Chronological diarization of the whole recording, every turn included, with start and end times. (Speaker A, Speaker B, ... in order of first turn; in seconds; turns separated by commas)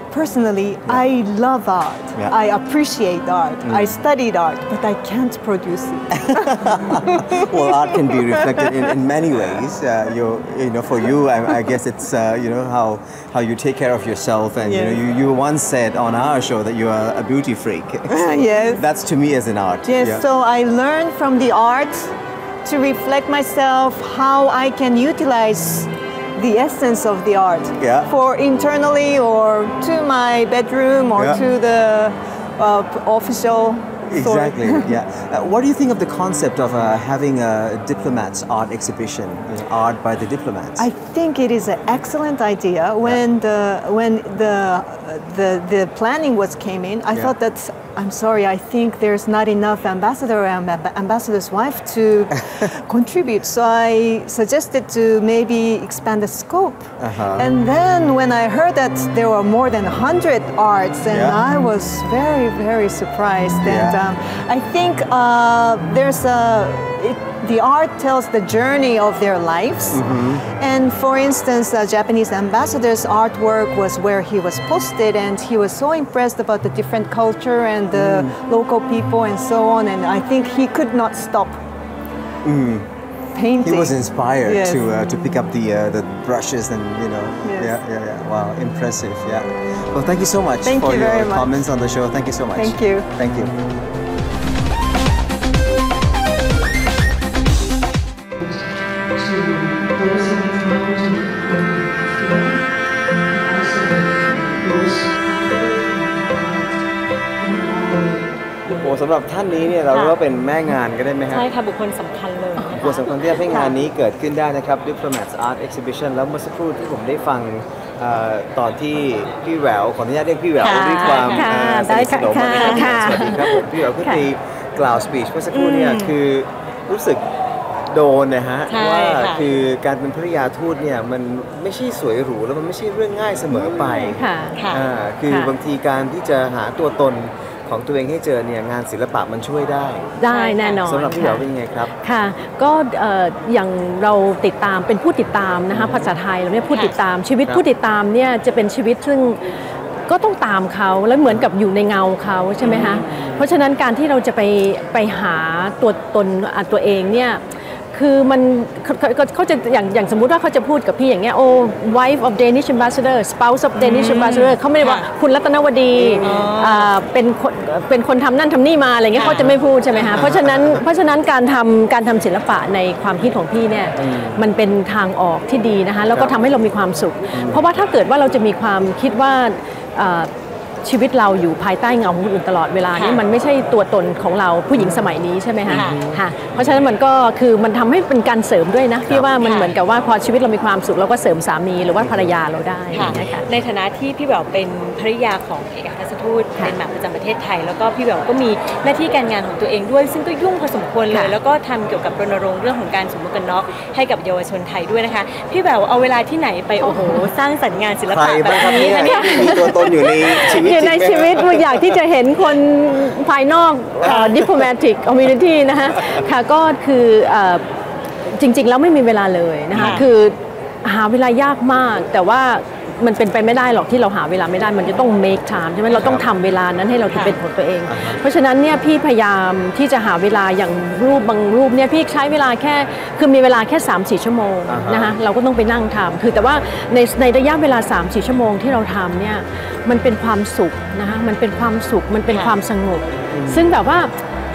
Speaker A: 0.1-8.9, Speaker B: 3.6-4.0, Speaker B: 6.2-20.2, Speaker A: 14.6-15.0, Speaker A: 18.1-18.9, Speaker A: 19.8-22.1, Speaker A: 22.6-34.9, Speaker B: 27.8-28.1, Speaker B: 31.2-31.4, Speaker B: 34.0-40.9, Speaker A: 40.8-81.6, Speaker B: 57.0-57.5, Speaker B: 61.1-61.4, Speaker B: 63.6-64.0, Speaker B: 69.9-70.5, Speaker B: 77.9-78.3, Speaker B: 82.4-82.9, Speaker A: 83.3-84.9, Speaker B: 83.6-93.5, Speaker A: 87.4-87.8, Speaker A: 90.6-91.5, Speaker A: 92.5-93.1, Speaker A: 99.1-102.6, Speaker A: 103.2-106.8, Speaker A: 107.4-108.3, Speaker B: 108.7-111.5, Speaker C: 109.9-110.2, Speaker C: 111.3-113.8, Speaker B: 112.7-127.2, Speaker C: 120.6-121.5, Speaker D: 120.7-124.2, Speaker C: 122.5-123.1, Speaker C: 125.5-126.1, Speaker B: 127.9-140.1, Speaker C: 128.7-129.5, Speaker D: 134.0-134.6, Speaker C: 134.6-134.9, Speaker D: 140.2-141.4, Speaker C: 140.3-140.8, Speaker B: 140.8-141.9, Speaker D: 142.0-149.4, Speaker B: 145.7-146.0, Speaker D: 150.1-157.4, Speaker C: 152.6-153.0, Speaker D: 157.9-180.3, Speaker C: 163.8-165.0, Speaker B: 166.0-166.3, Speaker C: 166.2-166.9, Speaker C: 169.1-170.1, Speaker B: 170.1-170.8, Speaker B: 174.0-174.4, Speaker B: 177.3-177.6, Speaker D: 180.8-193.4, Speaker C: 182.9-183.2, Speaker B: 184.7-185.1, Speaker C: 185.7-186.0, Speaker B: 185.7-186.8, Speaker C: 189.4-189.7, Speaker B: 192.0-192.3, Speaker C: 192.9-209.7, Speaker D: 206.9-207.2, Speaker B: 208.1-211.8, Speaker D: 208.7-217.6, Speaker C: 214.0-214.4, Speaker D: 218.3-244.1, Speaker B: 219.7-220.0, Speaker C: 219.7-220.0, Speaker B: 225.9-226.2, Speaker C: 227.1-227.4, Speaker B: 227.9-228.2, Speaker B: 234.7-235.2, Speaker C: 242.3-242.5, Speaker B: 243.3-243.8